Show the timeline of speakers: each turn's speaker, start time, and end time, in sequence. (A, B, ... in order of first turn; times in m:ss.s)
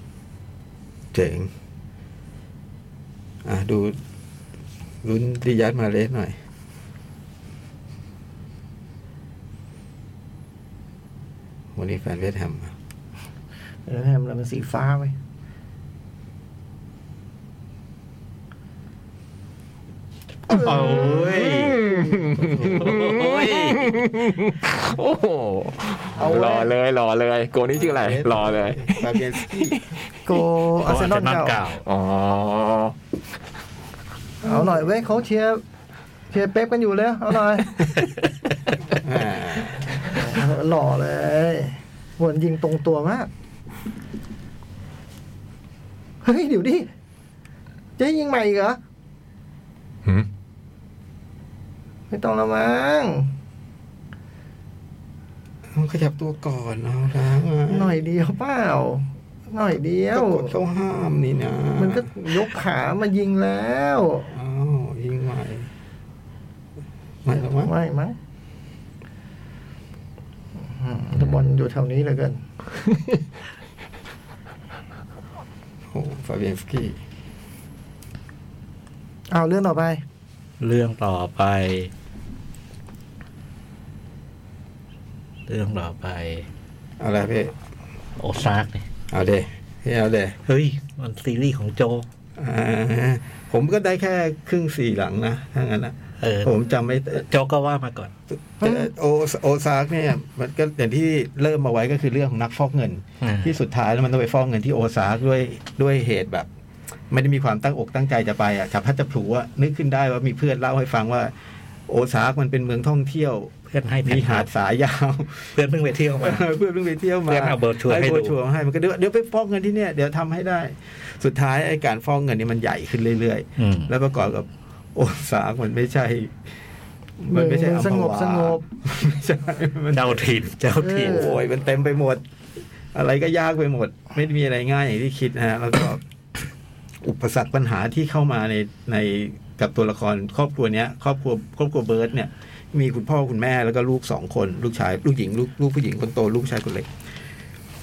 0:01.1-0:01.5 A
0:03.4-0:04.0 A
0:05.0-0:06.4 A
0:11.8-0:12.7 A
0:13.9-0:15.1 B
0:20.5-0:22.6 B
0:20.5-0:30.3 C
0:20.5-0:21.8 D
0:22.6-0:23.9 D
0:26.2-0:26.7 B
0:27.7-0:29.8 A
0:30.3-0:31.6 B
0:30.8-0:31.8 D
0:31.8-0:33.0 C
0:34.4-0:35.6 B
0:36.3-0:38.0 B
0:39.0-0:40.0 A
0:40.0-0:43.3 B
0:46.2-0:46.9 B
0:48.0-0:48.8 B
0:52.1-0:53.3 B
0:55.7-0:58.0 A
0:57.7-1:00.6 B
1:00.1-1:02.4 A
1:01.8-1:04.3 B
1:04.3-1:05.7 A
1:07.2-1:07.7 A
1:07.5-1:08.2 B
1:10.8-1:12.4 B
1:15.9-1:17.0 A
1:19.3-1:20.0 B
1:20.6-1:21.9 D
1:25.5-1:26.5 D
1:27.0-1:27.5 A
1:28.2-1:28.9 D
1:29.1-1:30.4 A
1:30.5-1:32.1 D
1:32.4-1:37.2 A
1:36.2-1:36.6 D
1:37.1-1:38.1 D
1:38.3-1:46.5 A
1:38.6-1:38.9 B
1:43.2-1:43.6 D
1:47.1-1:51.3 A
1:51.9-1:53.5 A
1:53.7-1:54.5 D
1:54.0-1:55.6 A
1:55.5-1:56.5 D
1:56.2-2:06.4 A
1:57.3-1:58.4 D
2:03.6-2:03.9 D
2:07.2-2:10.3 A
2:07.3-2:08.6 B
2:09.9-2:11.4 D
2:10.8-2:11.4 B
2:11.0-2:12.2 A
2:12.9-2:16.0 A
2:17.0-2:26.9 A